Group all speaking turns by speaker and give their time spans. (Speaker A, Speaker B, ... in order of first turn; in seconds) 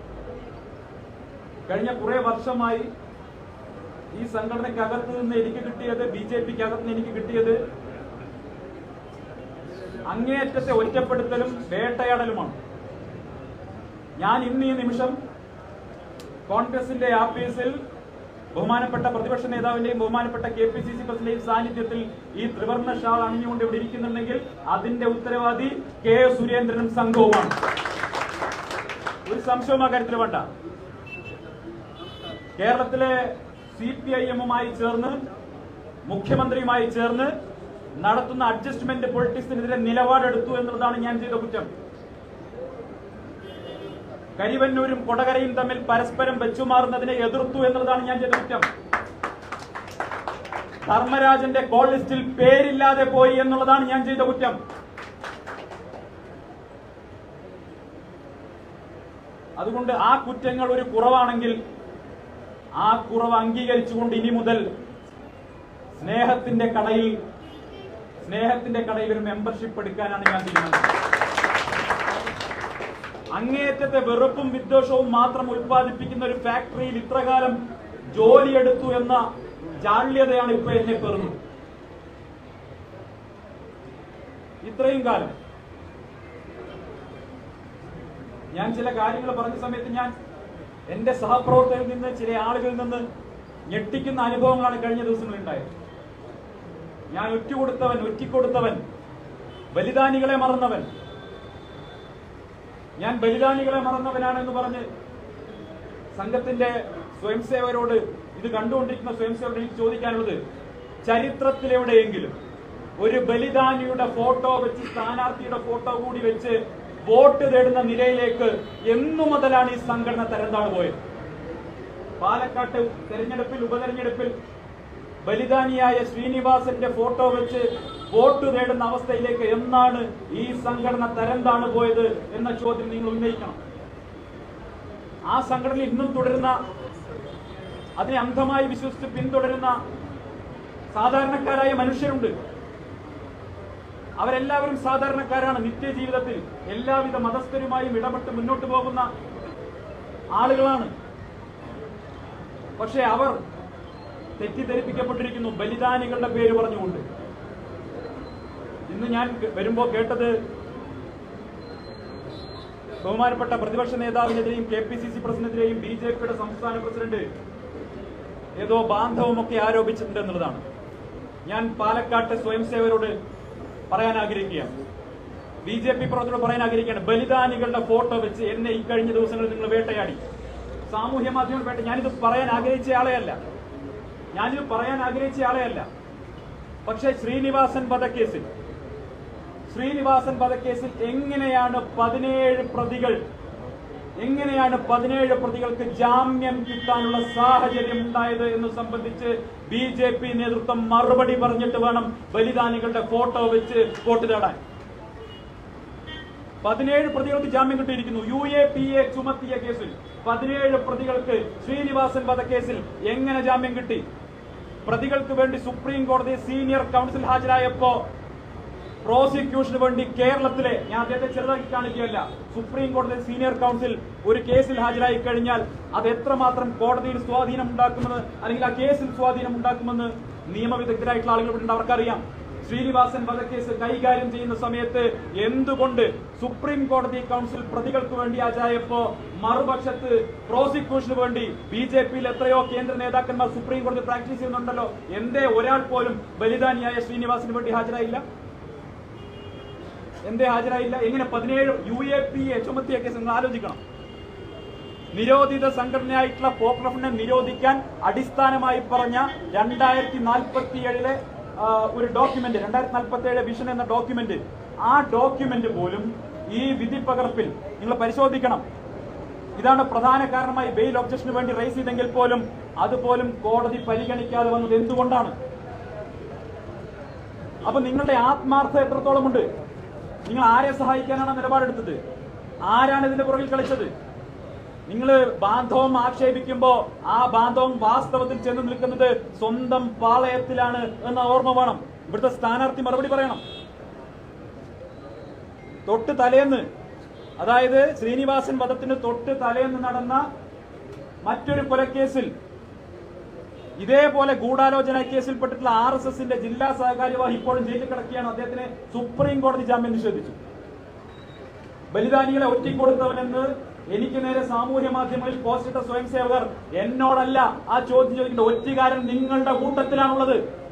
Speaker A: 1.7-2.9, 4.1-7.6, 10.1-12.6, 14.2-15.2, 16.5-17.8, 18.5-27.5, 29.3-30.5, 32.6-35.2, 36.1-37.3, 38.0-41.7, 44.4-48.7, 50.9-54.6, 59.6-61.6, 62.8-64.6, 66.0-67.2, 68.2-70.9, 73.3-77.6, 78.1-79.2, 79.8-81.4, 84.6-85.4, 88.5-90.1, 90.9-93.0, 93.7-95.7, 97.1-98.8, 99.7-100.9, 103.0-104.9, 106.2-110.4, 111.0-112.3, 113.0-121.0, 122.2-124.3, 125.2-133.6, 135.3-136.6, 138.0-139.8, 140.9-142.3, 144.2-149.1, 150.3-150.9, 152.8-153.4, 154.4-157.0, 158.9-160.4, 163.0-167.3, 168.6-170.6, 171.5-173.2, 173.9-174.7, 175.7-180.2, 180.9-183.4, 184.3-185.9, 186.9-188.5, 189.7-193.2, 194.2-204.6, 206.6-214.1, 214.8-218.1, 219.0-248.2, 250.2-253.8, 255.1-268.6, 269.6-275.4, 277.6-279.5, 280.3-282.0, 282.6-283.9, 284.9-293.4, 295.9-296.7, 297.4-300.2, 301.2-302.3, 303.8-310.4, 311.9-320.4